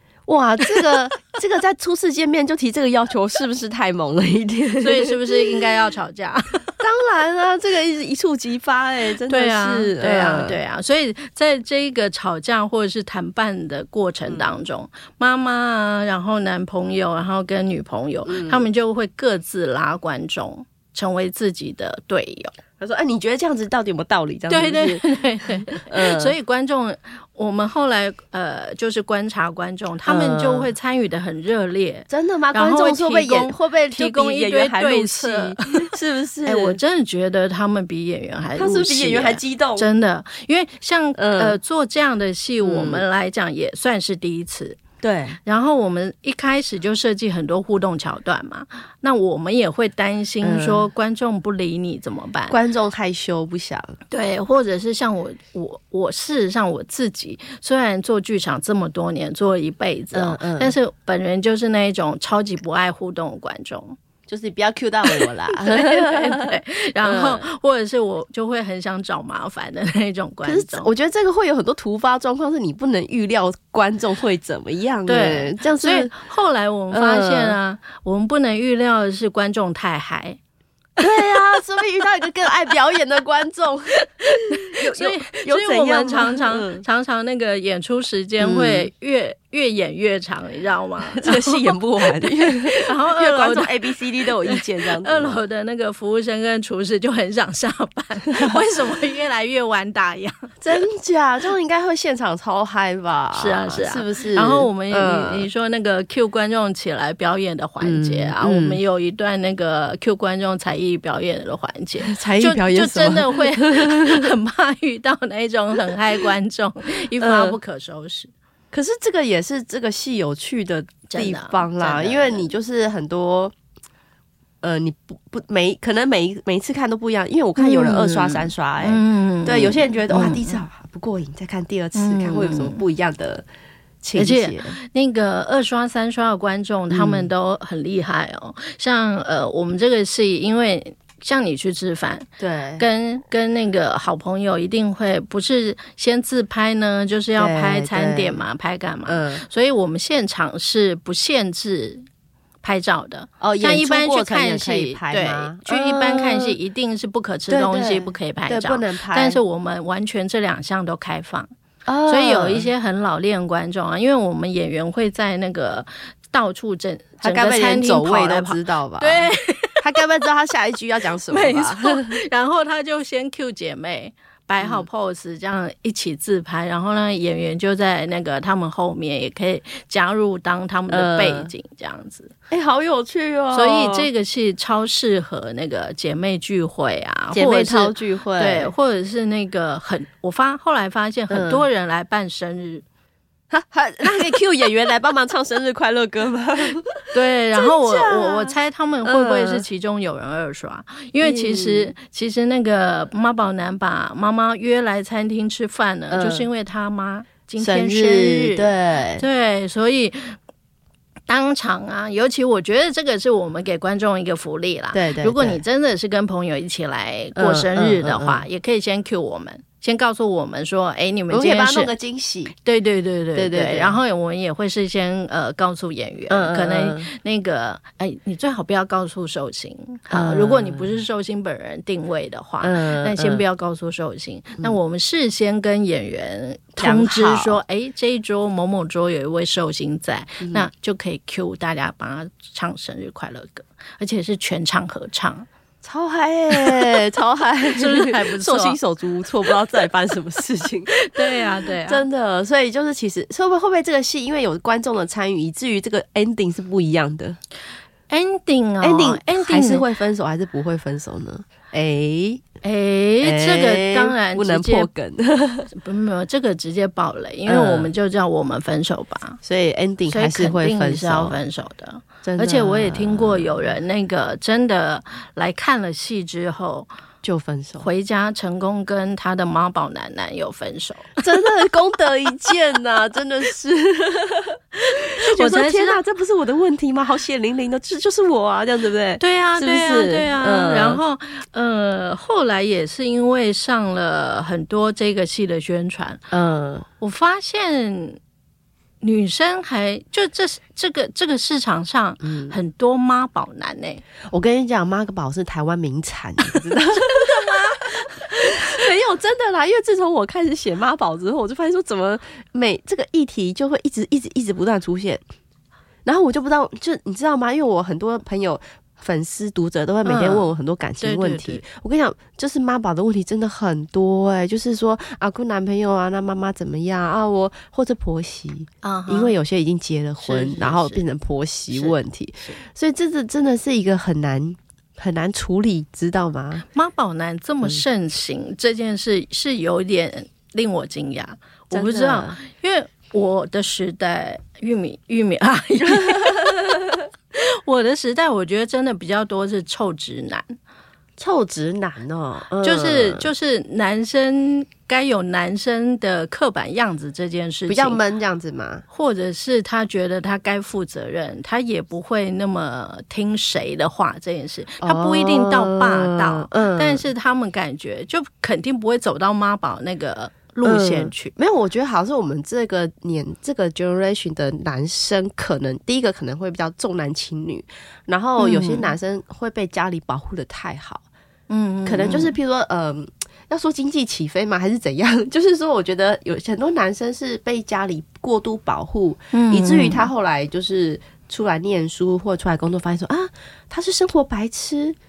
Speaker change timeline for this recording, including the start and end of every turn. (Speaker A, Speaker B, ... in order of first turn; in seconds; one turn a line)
Speaker A: 0.2-5.5
Speaker B: 4.8-6.8
Speaker A: 6.8-10.6
Speaker B: 9.3-22.6
Speaker A: 18.2-18.6
Speaker A: 22.8-25.0
Speaker B: 24.5-35.9
Speaker A: 25.7-26.3
Speaker A: 30.1-30.7
Speaker A: 32.1-36.8
Speaker B: 36.4-44.8
Speaker A: 38.6-39.9
Speaker A: 41.1-41.6
Speaker A: 42.6-43.0
Speaker A: 45.0-45.4
Speaker B: 45.4-52.6
Speaker A: 50.4-50.9
Speaker A: 52.5-54.0
Speaker B: 54.1-64.0
Speaker A: 60.1-60.8
Speaker A: 64.3-67.4
Speaker B: 65.0-70.9
Speaker A: 70.4-76.1
Speaker B: 75.1-80.4
Speaker A: 76.9-77.6
Speaker A: 81.0-86.8
Speaker B: 84.2-100.5
Speaker A: 88.4-88.9
Speaker A: 91.1-95.4
Speaker A: 100.6-105.5
Speaker B: 103.3-118.3
Speaker A: 107.8-108.8
Speaker A: 112.0-114.3
Speaker A: 117.2-117.6
Speaker A: 118.7-123.5
Speaker B: 121.1-122.5
Speaker A: 124.6-133.4
Speaker B: 127.6-130.6
Speaker B: 131.9-132.8
Speaker A: 134.0-134.8
Speaker B: 134.2-152.0
Speaker A: 136.9-137.3
Speaker A: 142.4-142.8
Speaker A: 147.4-148.4
Speaker A: 149.1-149.4
Speaker B: 152.6-161.5
Speaker A: 153.4-156.6
Speaker A: 157.5-159.4
Speaker A: 161.8-162.7
Speaker B: 162.1-170.0
Speaker A: 167.2-172.2
Speaker B: 171.3-182.3
Speaker A: 174.6-174.8
Speaker A: 180.9-181.5
Speaker A: 182.5-184.1
Speaker B: 183.5-192.8
Speaker A: 187.3-188.7
Speaker A: 191.3-191.6
Speaker A: 193.5-199.7
Speaker B: 197.1-210.4
Speaker A: 201.2-201.9
Speaker A: 206.1-206.5
Speaker A: 207.6-209.2
Speaker B: 211.3-221.9
Speaker A: 214.9-215.6
Speaker A: 217.3-218.4
Speaker A: 221.3-222.5
Speaker B: 222.6-245.4
Speaker A: 223.3-224.0
Speaker A: 226.3-227.1
Speaker A: 230.1-230.9
Speaker A: 232.6-233.4
Speaker A: 236.8-237.6
Speaker A: 240.4-240.7
Speaker A: 245.8-257.4
Speaker B: 246.5-247.0
Speaker B: 247.7-248.8
Speaker B: 250.9-252.0
Speaker B: 258.1-259.8
Speaker A: 258.8-262.4
Speaker B: 262.6-264.9
Speaker A: 263.2-265.7
Speaker B: 265.7-269.4
Speaker A: 267.5-267.9
Speaker A: 269.4-271.4
Speaker B: 270.1-276.9
Speaker A: 272.2-273.5
Speaker A: 277.2-277.9
Speaker B: 277.8-281.2
Speaker A: 281.2-291.0
Speaker B: 285.2-286.0
Speaker B: 289.2-296.2
Speaker A: 296.3-296.9
Speaker B: 297.0-298.2
Speaker B: 299.0-304.0
Speaker A: 302.2-302.6
Speaker A: 304.3-315.2
Speaker B: 306.5-308.7
Speaker A: 316.0-336.6
Speaker B: 320.0-320.5
Speaker B: 321.0-321.6
Speaker B: 328.8-329.3
Speaker B: 330.2-331.0
Speaker B: 331.7-332.6
Speaker B: 336.7-350.5
Speaker A: 341.7-342.4
Speaker A: 345.9-346.6
Speaker A: 351.2-353.3
Speaker B: 352.6-358.0
Speaker A: 357.7-358.8
Speaker B: 358.9-371.3
Speaker A: 364.8-367.0
Speaker A: 370.6-381.0
Speaker B: 378.4-378.9
Speaker B: 381.5-382.3
Speaker A: 381.9-394.9
Speaker B: 389.3-390.1